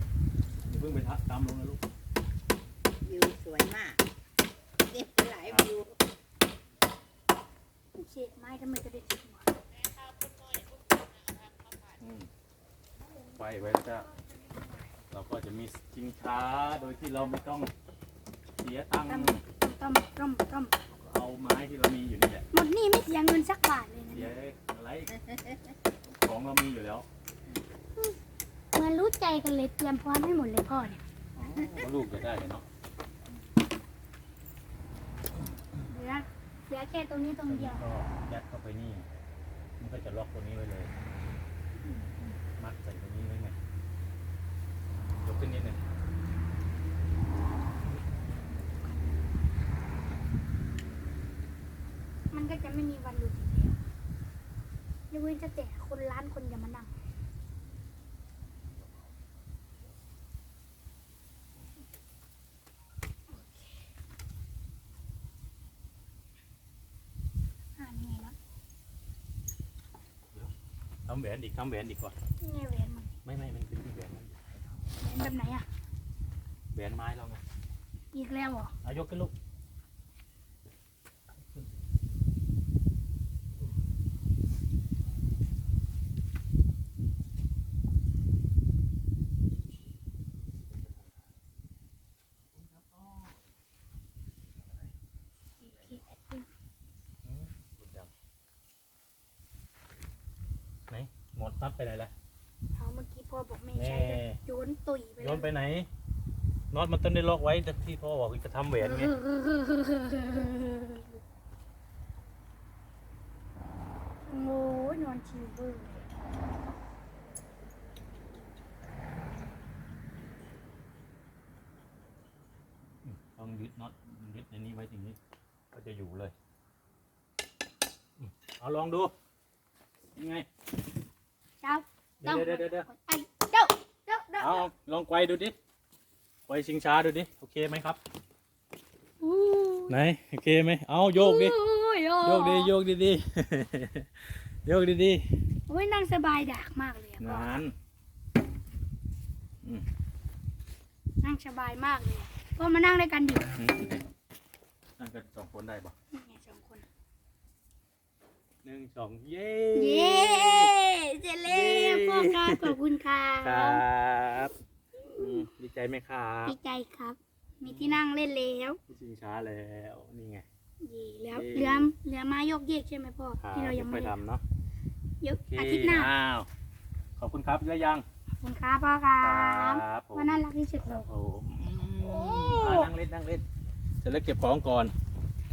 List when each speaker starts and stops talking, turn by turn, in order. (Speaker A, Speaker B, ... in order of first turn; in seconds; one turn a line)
Speaker A: 0.6-1.8
Speaker B: 3.0-4.0
Speaker B: 4.8-6.0
Speaker C: 7.9-9.6
Speaker B: 10.2-10.6
Speaker B: 11.2-11.7
Speaker A: 12.0-12.3
Speaker A: 13.3-14.1
Speaker A: 15.1-17.7
Speaker A: 18.6-19.4
Speaker C: 19.1-20.7
Speaker A: 20.9-22.4
Speaker C: 22.5-24.3
Speaker A: 24.1-25.2
Speaker B: 25.3-25.6
Speaker A: 26.1-27.1
Speaker C: 28.7-31.0
Speaker A: 31.3-32.6
Speaker B: 31.6-31.9
Speaker C: 35.9-37.8
Speaker A: 37.4-39.1
Speaker A: 39.8-40.9
Speaker C: 41.8-42.4
Speaker A: 42.6-43.5
Speaker A: 45.2-45.8
Speaker C: 52.3-53.8
Speaker C: 55.1-56.9
Speaker C: 63.3-63.8
Speaker C: 67.8-68.3
Speaker A: 71.1-72.1
Speaker C: 72.4-73.1
Speaker A: 73.2-74.6
Speaker C: 75.0-75.7
Speaker A: 76.7-77.4
Speaker C: 78.1-78.7
Speaker A: 78.8-79.3
Speaker A: 90.7-91.2
Speaker A: 92.5-93.4
Speaker A: 94.6-94.9
Speaker C: 95.6-96.5
Speaker A: 97.2-98.1
Speaker A: 100.9-102.1
Speaker C: 102.7-105.5
Speaker A: 103.7-104.4
Speaker A: 105.2-105.9
Speaker A: 106.7-109.1
Speaker C: 108.8-111.2
Speaker C: 114.3-116.0
Speaker A: 123.0-125.2
Speaker A: 125.7-126.3
Speaker A: 128.2-129.1
Speaker A: 130.2-130.4
Speaker C: 131.6-134.7
Speaker A: 132.2-132.9
Speaker A: 134.4-135.5
Speaker A: 136.5-138.0
Speaker C: 139.2-140.0
Speaker A: 139.9-141.6
Speaker C: 141.1-142.7
Speaker A: 142.2-145.3
Speaker C: 145.7-147.6
Speaker A: 147.2-147.7
Speaker C: 151.2-153.4
Speaker A: 153.6-154.0
Speaker A: 155.0-155.9
Speaker C: 156.1-156.8
Speaker A: 158.6-160.7
Speaker C: 159.7-163.8
Speaker A: 161.4-162.8
Speaker A: 163.4-164.5
Speaker C: 165.0-165.4
Speaker A: 165.2-166.6
Speaker C: 166.4-168.8
Speaker A: 167.7-168.0
Speaker A: 168.9-170.4
Speaker C: 170.8-174.2
Speaker A: 171.3-171.9
Speaker A: 173.4-174.4
Speaker C: 175.2-176.1
Speaker A: 175.5-176.5
Speaker A: 177.2-178.0
Speaker C: 178.4-181.1
Speaker A: 179.2-183.4
Speaker C: 182.0-182.9
Speaker A: 184.0-184.9